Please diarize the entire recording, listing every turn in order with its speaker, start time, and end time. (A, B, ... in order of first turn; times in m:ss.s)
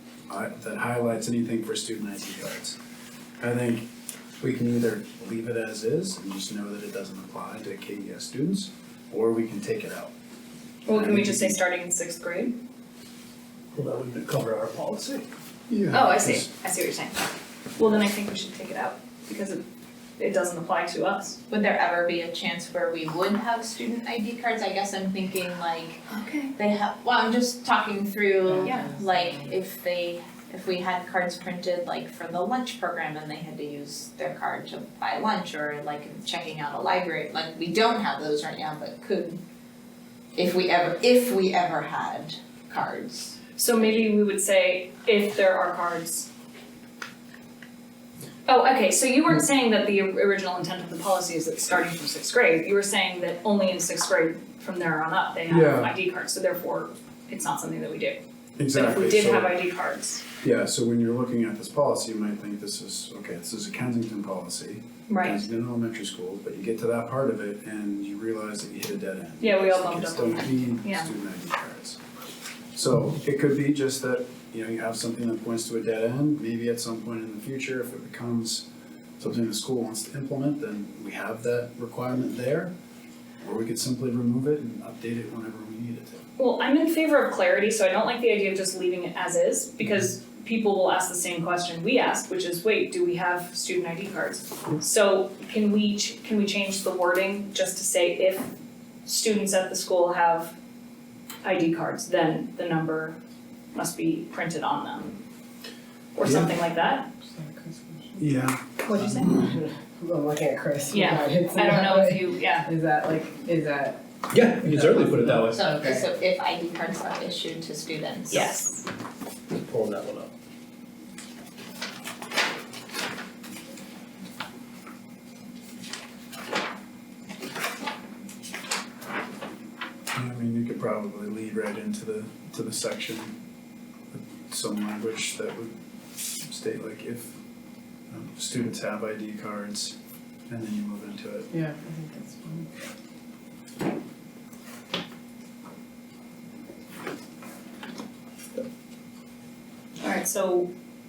0:00.3-0:02.8 A
0:03.4-0:03.9 A
0:04.4-0:10.1 A
0:10.9-0:12.6 B
0:10.9-0:11.6 A
0:13.8-0:15.3 C
0:15.7-0:16.5 A
0:15.9-0:19.6 B
0:20.2-0:21.4 B
0:21.5-0:39.4 D
0:26.1-0:26.5 B
0:28.5-0:29.6 E
0:40.4-0:43.4 D
0:43.6-0:46.3 B
0:48.5-0:58.2 B
0:55.5-0:55.9 A
0:58.6-0:59.5 A
0:58.7-1:00.2 B
1:00.4-1:12.0 A
1:05.1-1:05.5 B
1:09.4-1:11.1 B
1:12.8-1:18.7 A
1:19.2-1:22.7 A
1:23.4-1:26.2 A
1:26.4-1:38.5 B
1:39.0-1:40.6 B
1:41.4-1:43.2 B
1:43.7-1:45.2 B
1:46.2-1:47.1 B
1:46.2-1:46.5 A
1:47.2-1:48.3 E
1:48.2-1:49.1 A
1:48.9-1:49.3 B
1:48.9-1:54.0 E
1:50.9-1:52.7 B
1:54.3-1:55.7 C
1:54.7-1:56.1 E
1:55.5-1:58.5 D
1:58.3-1:58.8 B
1:59.5-2:00.3 C
2:10.1-2:13.3 A
2:14.1-2:15.8 A
2:16.3-2:17.4 A
2:18.1-2:20.0 A
2:20.5-2:21.5 A
2:21.5-2:22.7 E
2:30.0-2:30.7 B